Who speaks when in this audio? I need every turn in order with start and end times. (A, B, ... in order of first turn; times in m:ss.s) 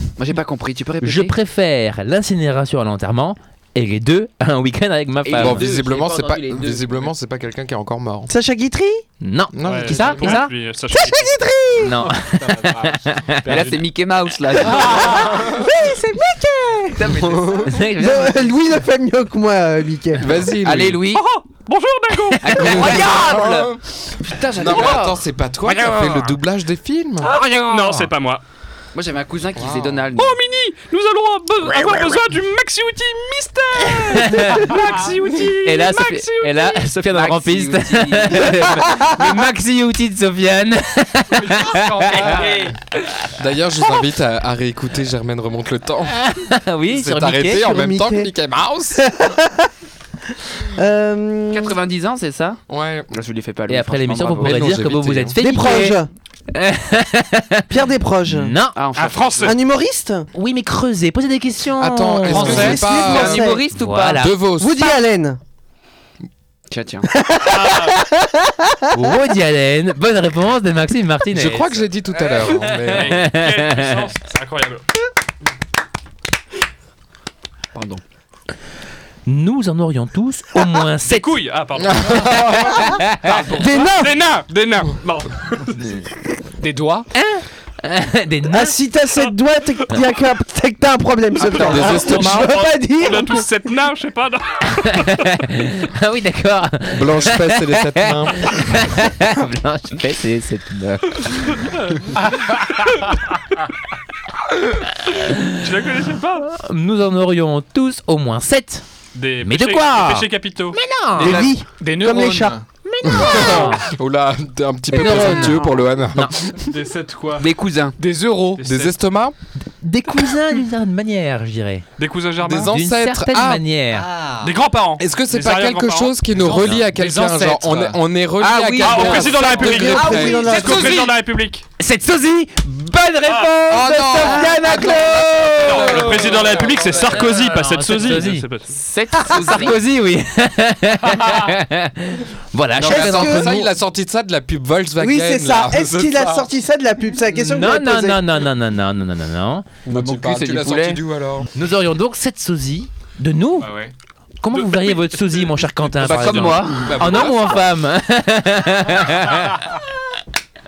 0:00.2-0:01.4 A
0:01.0-0:05.7 B
0:05.2-0:07.0 A
0:05.4-0:08.3 C
0:08.3-0:09.0 D
0:09.2-0:10.5 B
0:09.5-0:10.4 C
0:09.6-0:11.3 E
0:10.9-0:12.0 D
0:11.8-0:13.5 B
0:12.4-0:13.0 F
0:13.4-0:15.3 A
0:13.5-0:13.8 E
0:14.7-0:17.2 D
0:17.0-0:17.8 A
0:17.3-0:17.7 C
0:17.6-0:18.4 B
0:17.9-0:20.4 D
0:20.2-0:21.0 C
0:20.6-0:21.2 A
0:21.1-0:22.9 E
0:22.4-0:25.2 A
0:22.6-0:23.8 C
0:24.6-0:27.3 C
0:27.2-0:28.0 A
0:27.3-0:28.4 E
0:28.9-0:30.4 A
0:29.6-0:30.1 C
0:30.2-0:36.9 E
0:31.8-0:32.2 A
0:34.0-0:34.7 B
0:35.6-0:42.6 B
0:37.0-0:38.8 A
0:41.3-0:42.7 F
0:42.2-0:42.7 A
0:43.4-0:46.2 C
0:46.1-0:47.7 B
0:46.9-0:49.0 C
0:47.6-0:48.3 D
0:49.0-0:49.7 D
0:50.7-0:51.8 D
0:51.5-0:54.7 A
0:52.7-0:53.1 C
0:53.7-0:56.0 B
0:54.4-0:55.4 C
0:55.4-0:56.1 D
0:56.5-0:57.7 B
0:57.7-0:58.6 D
0:58.3-0:58.8 B
0:58.7-0:59.5 A
0:59.0-0:59.6 E
0:59.4-1:00.3 D
1:00.3-1:02.8 B
1:01.8-1:03.5 C
1:02.3-1:03.6 D
1:02.3-1:02.8 F
1:02.6-1:04.3 A
1:03.8-1:04.4 B
1:04.2-1:05.0 C
1:04.6-1:05.4 D
1:06.7-1:07.1 A
1:07.1-1:08.8 D
1:07.5-1:08.0 E
1:08.9-1:11.8 B
1:11.3-1:13.3 C
1:12.6-1:14.8 E
1:12.8-1:14.0 B
1:17.8-1:18.0 A
1:19.3-1:21.4 B
1:21.0-1:26.1 E
1:21.8-1:22.8 C
1:22.6-1:23.4 B
1:23.4-1:24.2 D
1:26.6-1:27.1 F
1:27.1-1:28.8 B
1:28.5-1:33.5 D
1:31.4-1:32.5 C
1:31.5-1:35.3 E
1:34.8-1:41.5 B
1:36.9-1:38.7 C
1:41.6-1:42.4 E
1:45.1-1:45.6 B
1:45.4-1:46.5 E
1:46.5-1:48.8 B
1:49.2-1:50.8 E
1:49.4-1:51.5 B
1:51.2-1:52.6 D
1:51.2-1:52.6 F
1:52.9-1:53.8 B
1:53.0-1:56.8 C
1:54.9-1:56.4 B
1:55.1-1:55.6 D
1:56.6-1:57.5 E
1:57.4-1:58.0 A
1:58.0-1:58.6 F
1:58.6-1:59.0 E
1:58.6-1:59.4 C
1:59.8-2:01.9 B
2:02.0-2:02.7 E
2:02.4-2:03.6 C
2:02.6-2:04.1 B
2:04.0-2:04.5 F
2:04.4-2:06.2 E
2:05.0-2:10.7 C
2:06.4-2:08.0 F
2:08.4-2:10.2 A
2:08.8-2:11.6 E
2:09.1-2:11.1 D
2:11.8-2:16.2 B
2:13.7-2:17.2 C
2:15.6-2:18.7 E
2:17.2-2:18.5 B
2:18.7-2:19.8 A
2:19.2-2:23.7 B
2:22.8-2:26.5 C
2:22.8-2:23.6 D
2:25.0-2:28.2 D
2:27.4-2:29.7 B
2:29.8-2:31.5 C
2:29.9-2:31.0 A
2:31.5-2:33.7 B
2:33.6-2:33.9 F
2:34.4-2:39.7 B
2:34.5-2:35.9 E
2:36.0-2:37.0 A
2:36.7-2:37.7 C